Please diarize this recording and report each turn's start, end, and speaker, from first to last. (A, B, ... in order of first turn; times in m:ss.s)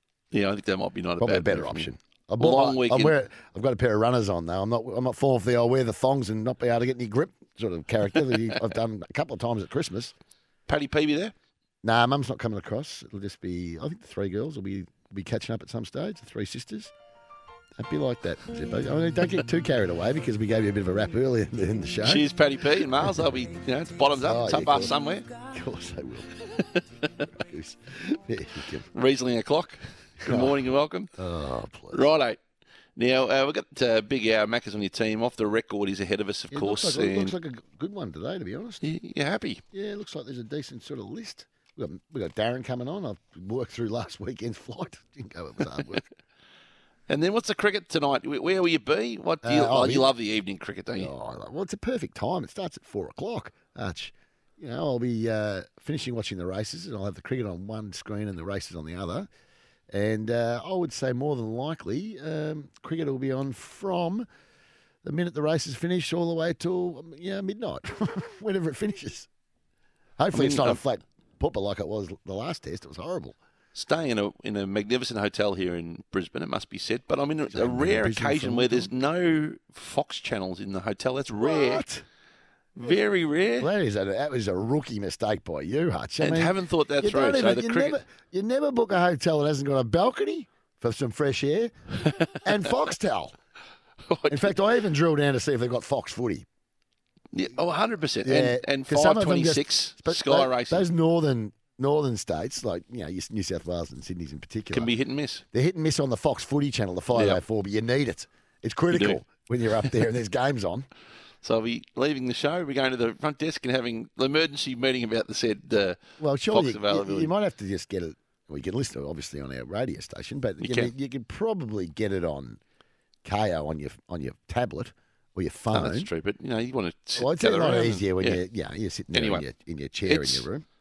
0:00.3-0:03.2 A
0:01.2-0:10.1 B
0:10.7-0:11.3 A
0:11.8-0:16.9 B
0:17.8-0:22.3 B
0:22.0-0:25.3 A
0:22.9-0:23.3 B
0:24.2-0:24.9 B
0:25.5-0:26.4 B
0:27.3-0:28.9 B
0:28.9-0:31.1 A
0:30.2-0:30.6 B
0:31.2-0:32.1 B
0:31.9-0:32.4 A
0:33.0-0:37.3 A
0:36.5-0:38.8 B
0:38.8-0:39.6 A
0:39.7-0:46.0 B
0:47.1-0:51.1 A
0:49.4-0:50.1 B
0:51.0-0:59.3 B
0:59.9-1:04.3 B
1:05.0-1:09.3 B
1:10.2-1:13.4 B
1:10.3-1:10.8 A
1:13.8-1:21.8 A
1:17.5-1:18.9 B
1:21.4-1:22.0 B
1:22.8-1:23.7 A
1:23.6-1:31.7 B
1:26.2-1:28.0 A
1:32.3-1:33.4 B
1:34.1-1:34.5 A
1:34.3-1:36.5 B
1:37.3-1:40.9 A
1:38.2-1:44.9 B
1:44.7-1:45.4 A
1:45.5-1:50.9 B
1:47.2-1:47.4 A
1:48.9-1:49.2 A
1:51.4-1:56.0 A
1:56.2-2:02.6 B
1:56.5-1:57.3 A
2:00.6-2:00.9 A
2:03.2-2:06.1 B
2:05.7-2:08.4 A
2:07.2-2:10.6 B
2:09.1-2:09.4 A
2:10.1-2:10.5 A